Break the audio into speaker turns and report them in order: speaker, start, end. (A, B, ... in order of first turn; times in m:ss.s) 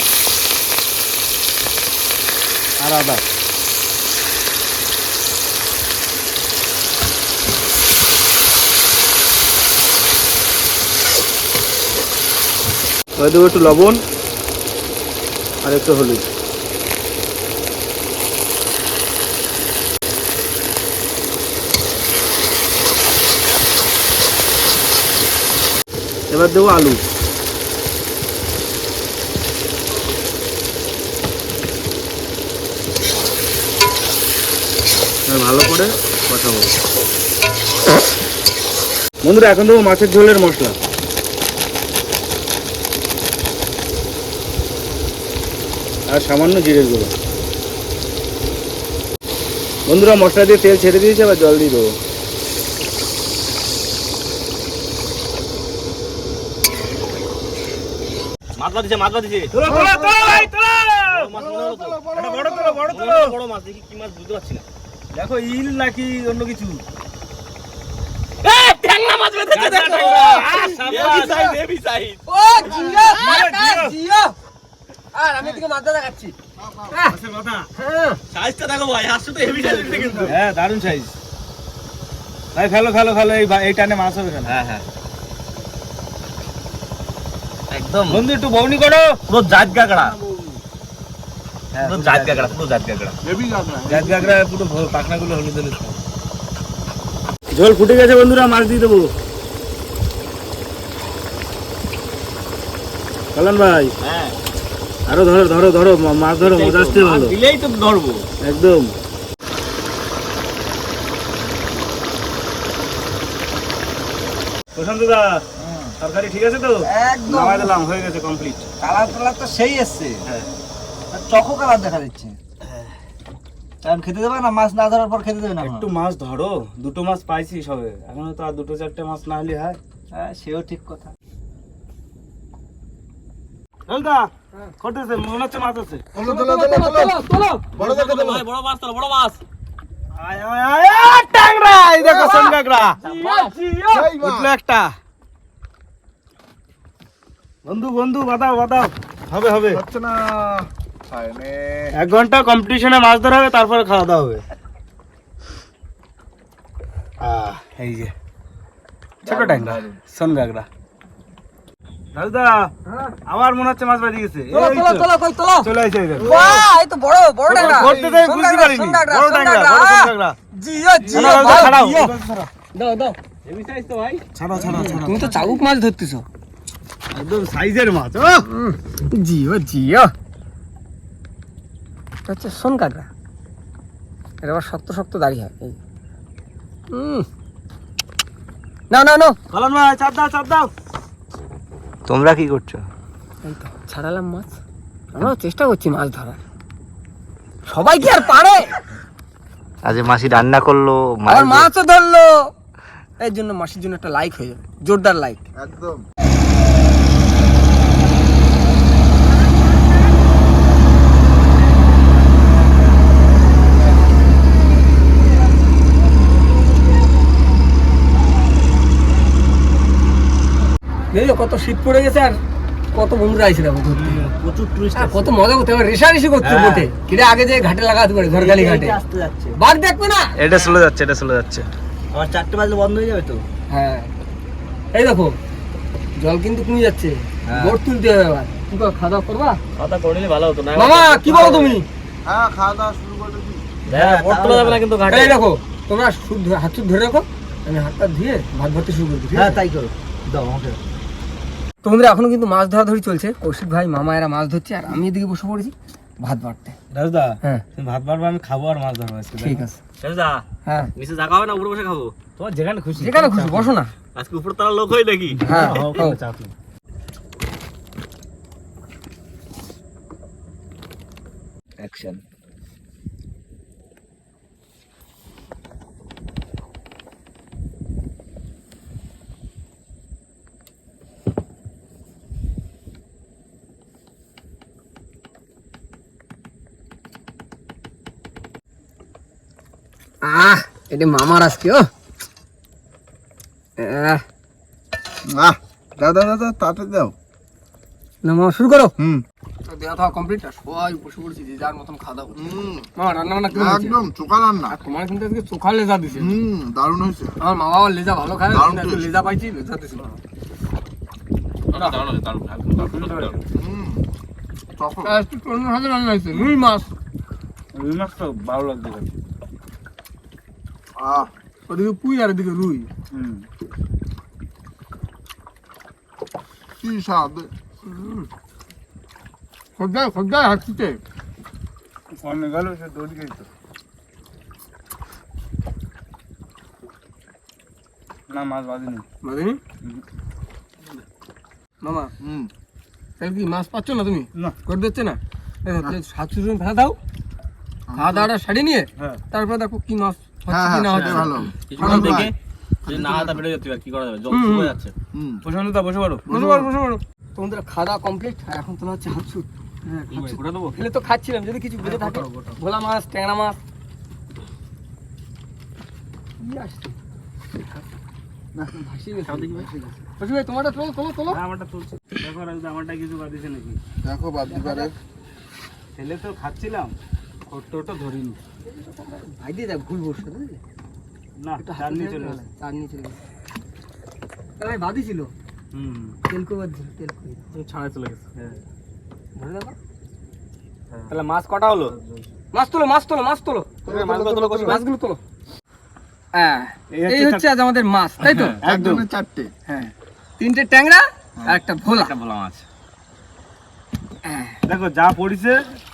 0:02.8-0:03.2 A
0:13.2-0:14.0 A
0:15.6-0:16.2 A
0:26.3-0:27.0 A
0:35.3-0:36.7 A
0:39.2-0:40.8 A
0:46.1-0:47.1 A
0:49.9-0:52.0 A
0:58.6-0:59.5 B
0:59.5-1:01.3 A
0:59.6-1:00.5 C
1:01.1-1:02.1 B
1:01.3-1:02.9 C
1:02.1-1:03.4 A
1:02.9-1:04.6 B
1:05.1-1:06.8 A
1:08.4-1:12.2 B
1:09.5-1:11.4 A
1:10.6-1:11.2 D
1:12.3-1:14.3 D
1:12.6-1:13.2 C
1:13.1-1:14.0 A
1:15.1-1:16.3 D
1:16.6-1:17.0 C
1:16.9-1:17.2 D
1:17.1-1:17.7 A
1:17.8-1:18.2 D
1:18.3-1:20.3 B
1:20.2-1:21.1 A
1:22.5-1:24.6 A
1:24.5-1:24.8 B
1:27.7-1:28.2 B
1:28.1-1:29.2 A
1:29.3-1:30.1 B
1:29.7-1:30.5 C
1:31.8-1:32.5 E
1:31.8-1:33.1 B
1:31.8-1:32.4 A
1:33.2-1:34.4 C
1:33.9-1:35.9 A
1:37.5-1:39.1 A
1:43.3-1:43.9 A
1:44.0-1:44.3 B
1:45.1-1:47.4 A
1:46.4-1:48.3 B
1:48.4-1:48.9 A
1:54.7-1:55.4 A
1:55.6-1:55.9 E
1:56.0-1:58.7 A
1:56.8-1:57.8 E
1:58.8-2:00.3 E
2:01.1-2:02.4 E
2:03.8-2:05.9 E
2:05.6-2:09.8 A
2:10.1-2:11.1 E
2:13.9-2:16.1 A
2:16.1-2:17.1 C
2:16.1-2:17.6 D
2:17.8-2:18.4 C
2:17.8-2:19.4 B
2:20.2-2:24.9 A
2:22.0-2:22.6 C
2:23.0-2:23.5 D
2:23.9-2:24.5 C
2:27.6-2:29.8 A
2:29.7-2:32.0 C
2:31.9-2:34.4 A
2:37.8-2:38.1 A
2:39.2-2:40.7 A
2:39.2-2:40.0 C
2:42.1-2:42.7 A
2:42.9-2:43.1 D
2:43.3-2:45.1 A
2:44.5-2:52.1 D
2:45.6-2:46.3 A
2:46.2-2:46.5 C
2:47.4-2:50.4 A
2:47.7-2:48.1 C
2:51.1-2:52.5 A
2:52.7-2:53.2 D
2:53.4-2:54.2 B
2:54.3-2:55.4 A
2:54.6-2:56.2 D
2:57.1-2:58.5 A
2:58.4-3:00.1 D
3:02.2-3:03.1 D
3:04.4-3:05.8 D
3:06.9-3:07.3 D
3:08.9-3:09.4 D
3:09.5-3:10.7 A
3:12.1-3:12.9 E
3:13.4-3:14.6 D
3:15.1-3:16.4 D
3:17.7-3:18.8 D
3:19.8-3:21.7 E
3:21.2-3:22.4 D
3:23.2-3:25.4 D
3:25.6-3:26.0 C
3:41.1-3:42.4 D
3:42.9-3:44.2 D
3:44.1-3:45.3 E
3:44.9-3:49.0 D
3:46.4-3:46.9 E
3:48.2-3:49.6 E
3:49.6-3:50.3 D
3:50.4-3:51.7 A
3:52.1-3:53.4 E
3:53.7-3:54.1 D
3:54.9-3:55.3 D
3:56.2-3:59.6 D
3:57.5-3:57.8 E
3:59.8-4:01.8 B
4:00.7-4:01.8 D
4:02.3-4:03.6 C
4:03.8-4:04.8 E
4:03.8-4:05.4 B
4:05.1-4:09.6 D
4:09.3-4:10.8 E
4:11.8-4:16.8 D
4:16.9-4:19.6 A
4:19.4-4:19.8 D
4:20.0-4:20.4 B
4:20.6-4:20.9 D
4:21.0-4:22.2 B
4:22.4-4:23.6 A
4:22.9-4:23.9 D
4:24.2-4:26.1 B
4:25.4-4:26.5 A
4:25.4-4:26.2 D
4:31.8-4:32.2 E
4:50.2-4:51.9 D
4:53.8-4:54.2 D
4:55.2-4:57.1 C
4:58.2-4:58.9 D
4:59.0-4:59.2 C
4:59.6-5:04.0 D
5:02.4-5:02.9 C
5:03.5-5:04.7 C
5:04.7-5:06.4 D
5:06.1-5:07.3 C
5:07.4-5:10.1 D
5:08.5-5:09.1 C
5:11.7-5:13.4 B
5:12.8-5:13.3 A
5:13.5-5:14.0 C
5:14.8-5:15.2 C
5:15.0-5:16.9 D
5:17.7-5:19.1 A
5:21.0-5:21.3 C
5:21.7-5:22.9 D
5:23.1-5:23.4 A
5:26.8-5:27.5 C
5:27.8-5:28.3 D
5:29.8-5:31.0 D
5:32.2-5:33.5 A
5:38.3-5:39.0 A
5:39.2-5:39.6 D
5:41.8-5:42.1 D
5:42.2-5:42.5 C
5:43.2-5:47.0 D
5:47.9-5:48.2 C
5:47.9-5:52.3 D
5:50.5-5:52.3 C
5:50.9-5:52.3 B
5:52.8-5:54.9 B
5:53.0-5:53.4 C
5:54.3-5:54.7 D
5:55.1-5:55.4 C
5:55.4-5:56.3 A
5:56.3-5:59.5 D
5:56.3-5:56.6 C
5:59.9-6:00.1 A
6:00.1-6:00.8 B
6:00.1-6:03.6 D
6:01.8-6:02.6 A
6:06.4-6:07.0 D
6:08.7-6:11.4 D
6:09.2-6:09.7 B
6:11.3-6:13.8 A
6:14.0-6:14.9 C
6:14.5-6:14.9 D
6:16.0-6:16.9 A
6:17.5-6:18.4 A
6:18.6-6:20.6 D
6:21.4-6:22.4 A
6:21.6-6:23.2 D
6:24.6-6:25.3 D
6:25.7-6:26.1 A
6:26.3-6:27.4 D
6:27.5-6:28.5 B
6:29.3-6:29.7 D
6:31.1-6:31.9 B
6:32.5-6:33.8 D
6:33.8-6:34.8 B
6:33.9-6:34.6 C
6:34.2-6:34.6 E
6:34.6-6:35.2 D
6:36.3-6:38.6 D
6:36.9-6:37.4 A
6:38.2-6:38.5 B
6:38.6-6:39.0 A
6:38.6-6:39.6 C
6:40.4-6:42.1 D
6:41.8-6:42.6 B
6:44.2-6:44.6 D
6:44.6-6:45.6 A